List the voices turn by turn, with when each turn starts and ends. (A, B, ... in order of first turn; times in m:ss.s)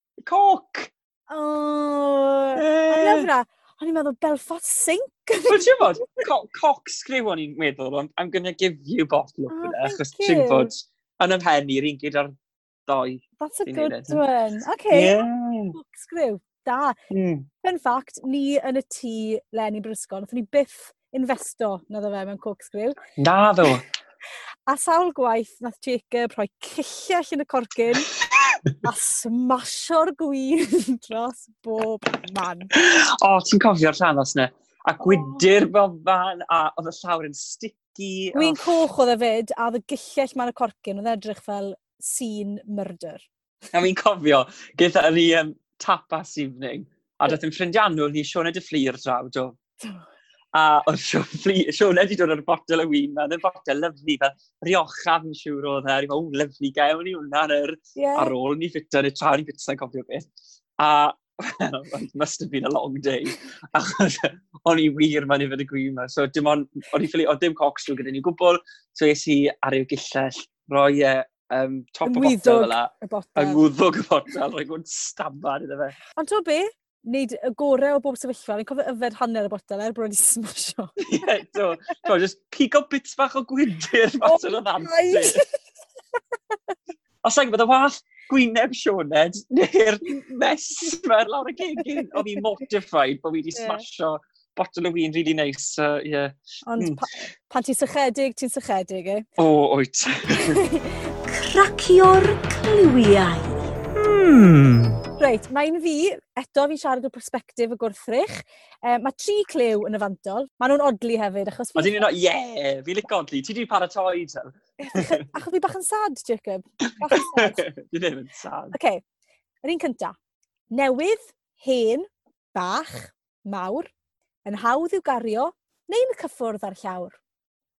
0:00.2-0:00.9 A
0:01.3-0:06.2 B
0:02.6-0:03.3 A
0:05.5-0:14.2 A
0:09.5-0:10.7 B
0:13.4-0:15.2 B
0:14.9-0:15.8 A
0:15.7-0:17.0 B
0:17.1-0:17.5 A
0:17.6-0:23.0 B
0:23.2-0:23.8 A
0:24.7-0:28.1 B
0:28.8-0:32.7 B
0:32.7-0:38.7 A
0:35.0-0:35.4 B
0:38.3-0:43.3 B
0:43.7-0:49.6 A
0:50.5-1:16.0 A
0:58.0-0:58.3 B
1:12.0-1:13.6 B
1:16.2-1:21.0 B
1:21.0-1:25.4 A
1:24.2-1:25.6 B
1:27.2-1:37.0 A
1:31.8-1:32.2 B
1:33.6-1:33.8 B
1:36.7-1:39.3 B
1:39.4-1:40.6 A
1:40.3-1:43.8 B
1:44.0-1:45.0 A
1:45.2-1:52.1 B
1:51.8-1:55.2 A
1:54.8-1:57.6 B
1:57.0-1:58.8 A
1:58.7-1:59.0 B
1:59.6-2:00.2 B
2:00.7-2:03.9 B
2:04.4-2:07.2 B